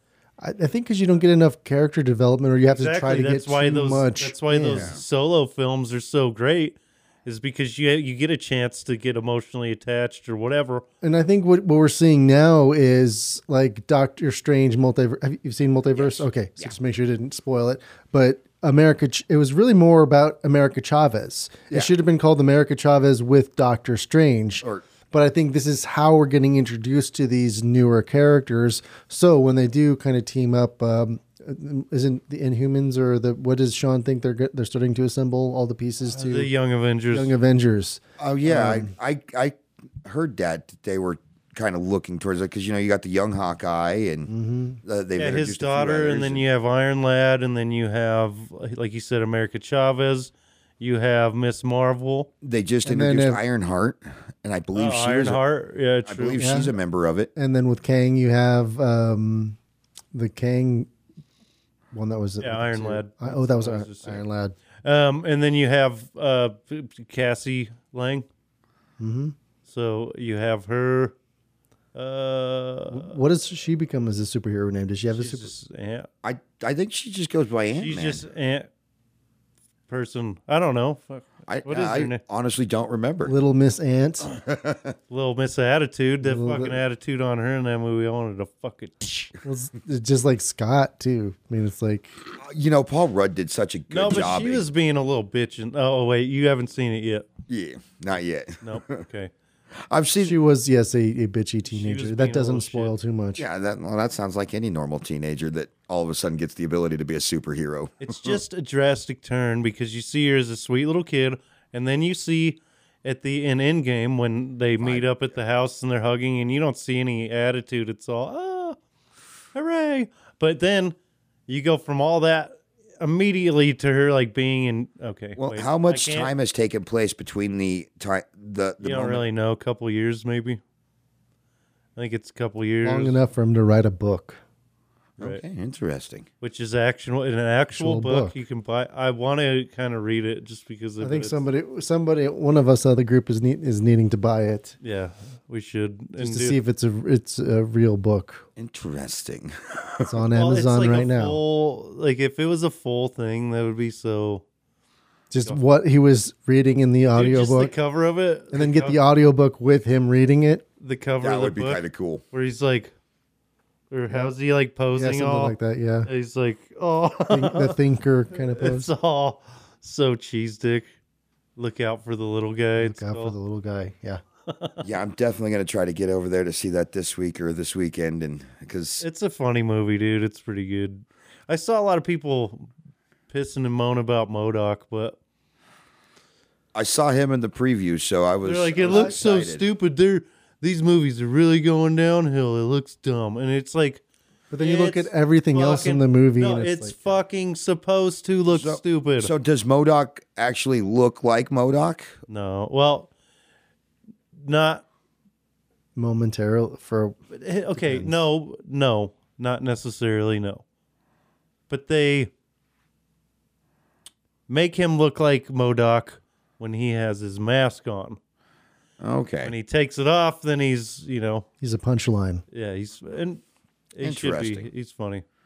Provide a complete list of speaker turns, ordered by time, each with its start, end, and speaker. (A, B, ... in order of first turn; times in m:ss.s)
0:00.4-0:04.9 A
0:02.7-0:10.8 B
0:04.7-0:05.0 C
0:11.0-0:36.5 A
0:15.9-0:16.7 C
0:36.1-0:37.3 B
0:37.1-0:38.9 A
0:38.2-0:44.3 C
0:44.3-0:44.8 A
0:44.8-0:46.4 C
0:45.2-0:52.3 B
0:52.4-0:55.4 C
0:52.8-0:53.4 A
0:54.7-0:56.5 B
0:56.0-0:57.3 C
0:56.4-0:56.7 A
0:57.4-0:59.6 A
1:00.1-1:00.9 A
1:01.9-1:04.5 A
1:02.4-1:04.2 B
1:04.8-1:08.2 B
1:09.0-1:09.3 A
1:09.6-1:11.1 B
1:11.9-1:13.1 B
1:12.9-1:15.5 A
1:15.1-1:16.1 B
1:16.2-1:18.2 C
1:17.7-1:18.7 B
1:19.9-1:22.2 B
1:21.5-1:23.3 C
1:23.2-1:24.3 A
1:24.2-1:24.9 C
1:25.1-1:29.3 B
1:26.2-1:26.8 A
1:29.4-1:32.2 A
1:32.3-1:34.6 C
1:33.9-1:37.2 B
1:37.5-1:39.0 C
1:38.6-1:39.3 B
1:39.9-1:40.4 C
1:40.2-1:43.4 A
1:41.7-1:42.9 B
1:43.4-1:48.4 C
1:48.0-1:58.8 B
1:54.8-1:55.1 C
1:59.5-2:01.0 B
2:01.5-2:06.3 B
2:05.4-2:09.2 C
2:08.8-2:10.6 B
2:12.0-2:13.2 B
2:12.8-2:14.4 A
2:15.2-2:16.2 C
2:16.4-2:21.4 B
2:17.7-2:18.4 A
2:21.0-2:24.8 A
2:24.8-2:26.6 B
2:26.2-2:28.4 A
2:28.6-2:30.2 C
2:30.0-2:31.4 A
2:30.3-2:34.4 B
2:35.3-2:37.7 A
2:37.1-2:39.0 B
2:38.5-2:40.6 A
2:40.8-2:42.9 B
2:41.2-2:42.2 C
2:43.9-2:47.8 B
2:44.9-2:46.1 A
2:47.3-2:48.9 A
2:48.5-2:50.9 B
2:51.6-2:53.3 B
2:52.8-2:54.2 A
2:54.5-2:54.8 B
2:54.8-2:59.0 C
2:59.0-3:02.7 B
3:03.3-3:05.2 B
3:06.7-3:09.6 C
3:08.4-3:14.0 B
3:08.9-3:09.2 A
3:14.5-3:17.0 A
3:14.6-3:19.3 B
3:18.5-3:22.2 C
3:22.3-3:23.1 B
3:24.3-3:24.8 B
3:26.0-3:27.2 A
3:27.3-3:30.6 B
3:27.8-3:28.1 A
3:31.7-3:32.3 B
3:34.5-3:38.2 B
3:39.0-3:39.5 C
3:39.4-3:41.4 B
3:41.6-3:42.4 A
3:42.5-3:43.4 B
3:43.9-3:45.2 B
3:44.0-3:44.7 C